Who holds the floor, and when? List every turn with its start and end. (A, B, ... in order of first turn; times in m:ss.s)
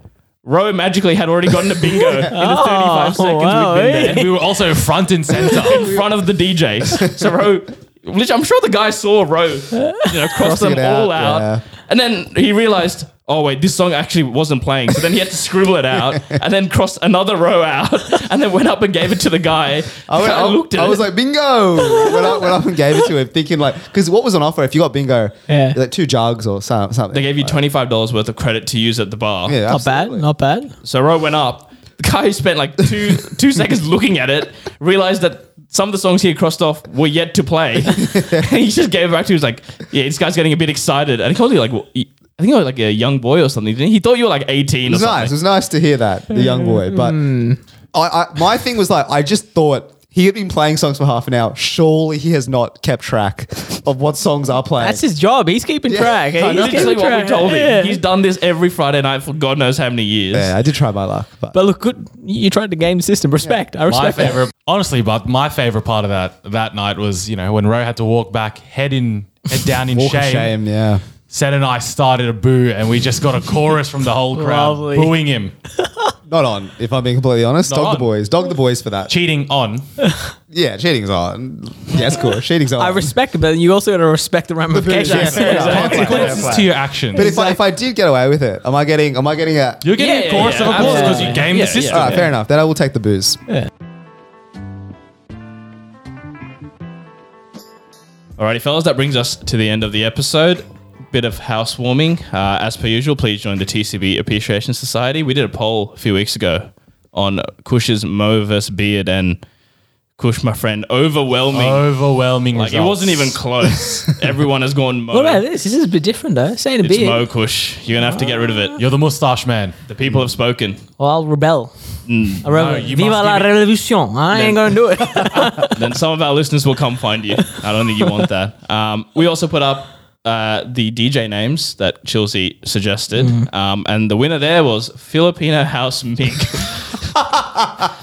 0:00.4-0:04.3 A
0:02.3-0:04.3 B
0:03.5-0:05.9 C
0:05.4-0:21.1 A
0:09.8-0:10.1 B
0:10.4-0:11.6 D
0:16.1-0:16.4 D
0:20.1-0:27.6 D
0:21.8-0:22.5 B
0:25.5-0:25.8 B
0:27.1-0:29.6 A
0:29.5-0:30.3 D
0:29.7-0:30.7 B
0:30.8-0:45.4 A
0:37.8-0:38.5 D
0:44.9-0:47.2 D
0:46.4-0:47.6 B
0:47.9-0:55.0 D
0:54.8-0:58.0 B
0:55.9-0:57.0 D
0:56.5-1:00.5 A
1:00.3-1:01.6 D
1:01.5-1:04.4 B
1:03.9-1:10.5 C
1:09.9-1:11.0 D
1:11.3-1:15.6 C
1:14.3-1:15.2 B
1:15.8-1:16.1 B
1:16.3-1:19.1 D
1:17.6-1:18.1 C
1:19.1-1:19.9 C
1:20.0-1:20.3 B
1:20.5-1:23.2 D
1:22.8-1:26.6 B
1:24.7-1:29.9 D
1:25.0-1:26.6 A
1:25.4-1:27.3 C
1:27.1-1:27.6 B
1:29.8-1:32.2 C
1:30.0-1:32.3 A
1:30.6-1:31.5 B
1:31.8-1:33.4 D
1:38.4-1:49.4 A
1:50.2-1:51.9 A
1:51.5-1:53.4 C
1:52.5-1:55.4 A
1:55.1-1:57.2 B
1:56.8-1:58.8 A
1:58.1-1:58.8 B
1:58.8-1:59.8 C
1:59.9-2:00.8 A
2:01.0-2:01.7 B
2:02.1-2:02.4 A
2:02.4-2:05.8 B
2:02.5-2:03.5 C
2:04.3-2:17.2 A
2:13.2-2:13.5 B